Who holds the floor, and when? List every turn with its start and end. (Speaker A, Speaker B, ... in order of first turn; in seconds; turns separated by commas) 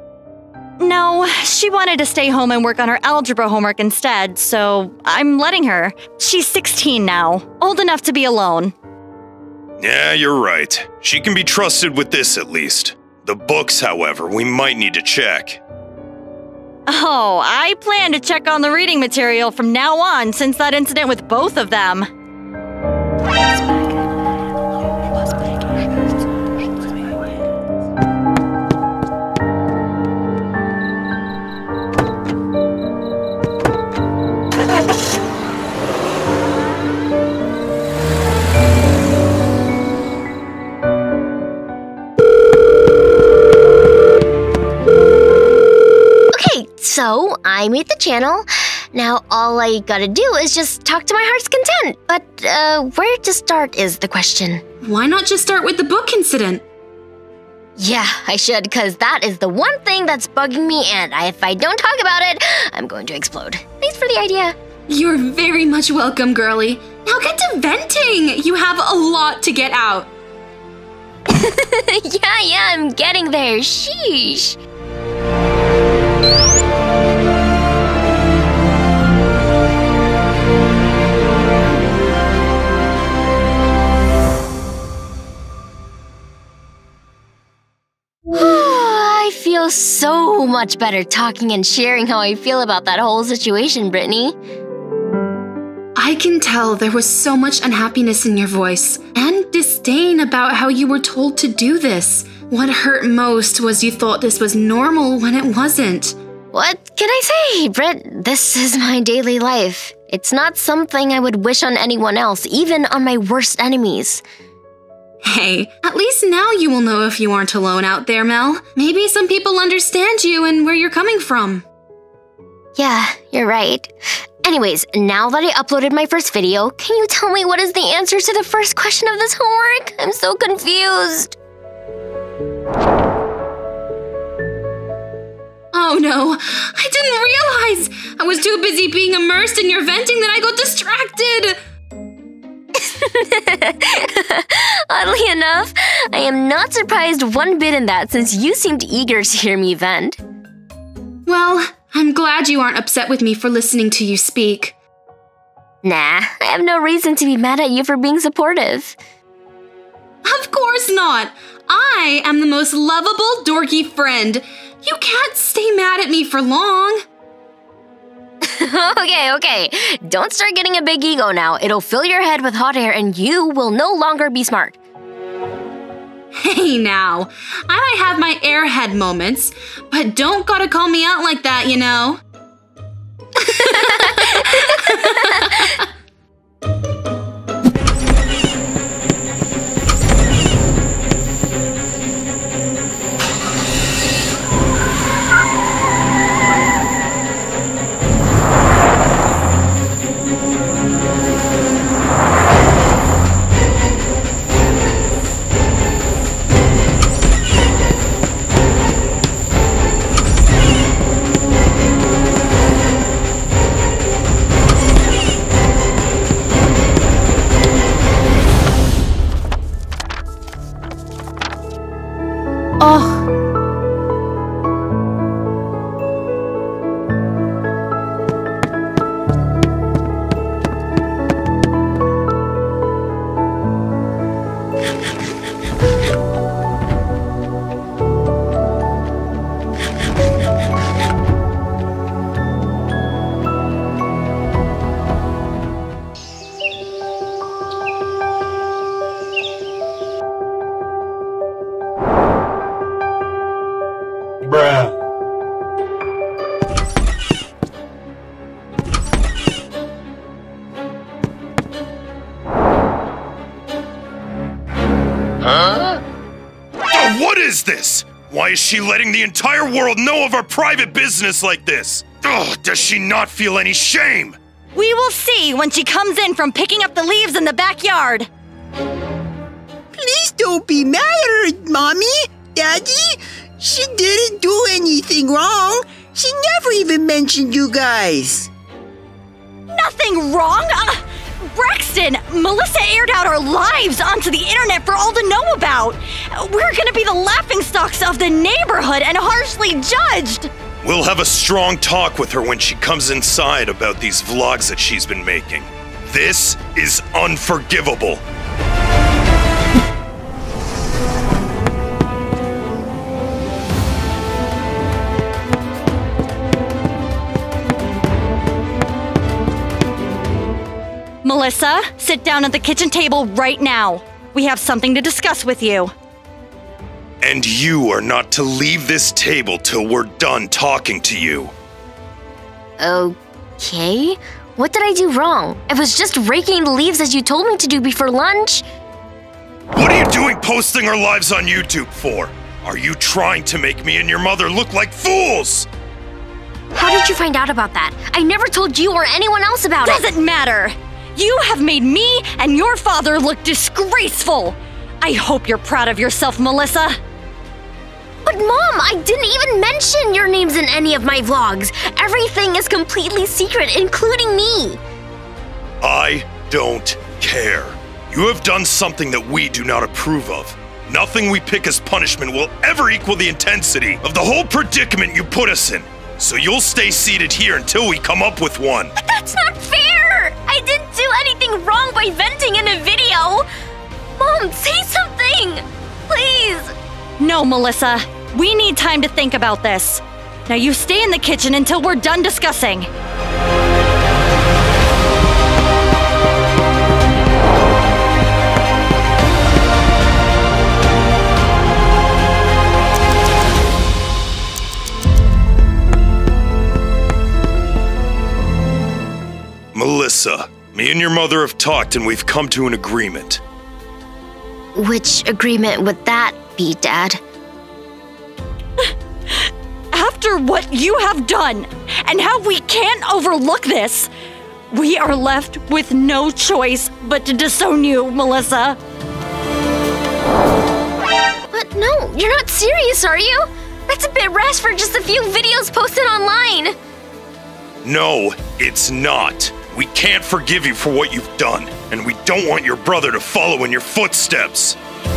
Speaker A: 0.8-8.7, Speaker B: 9.8-15.6, Speaker A: 16.9-22.1, Speaker C: 46.3-54.6, Speaker D: 54.8-56.6, Speaker C: 57.8-64.6, Speaker D: 64.9-70.1, Speaker C: 71.3-74.6, Speaker C: 88.3-94.4, Speaker D: 96.0-106.2, Speaker C: 106.5-114.2, Speaker D: 115.2-121.7, Speaker C: 122.8-131.4, Speaker D: 135.7-141.6, Speaker C: 142.7-150.2, Speaker D: 151.3-154.8, Speaker C: 155.8-159.0, Speaker D: 160.2-167.0, Speaker C: 168.4-174.8, Speaker D: 176.3-182.2, Speaker D: 183.4-185.9, Speaker C: 183.7-185.5, Speaker B: 266.9-274.4, Speaker A: 274.8-278.3, Speaker E: 279.9-288.5, Speaker A: 289.7-300.5, Speaker B: 300.8-308.2, Speaker A: 321.2-325.9, Speaker B: 327.2-331.5, Speaker C: 332.8-338.7, Speaker B: 339.7-345.7, Speaker C: 346.7-350.1, Speaker A: 349.8-357.0, Speaker C: 358.2-364.8, Speaker B: 365.8-378.9, Speaker C: 379.0-383.5, Speaker C: 384.2-386.7, Speaker A: 387.2-392.9, Speaker B: 409.7-413.4, Speaker C: 414.8-417.2, Speaker A: 418.8-424.1, Speaker A: 424.7-428.8, Speaker C: 431.5-436.7, Speaker B: 437.8-444.8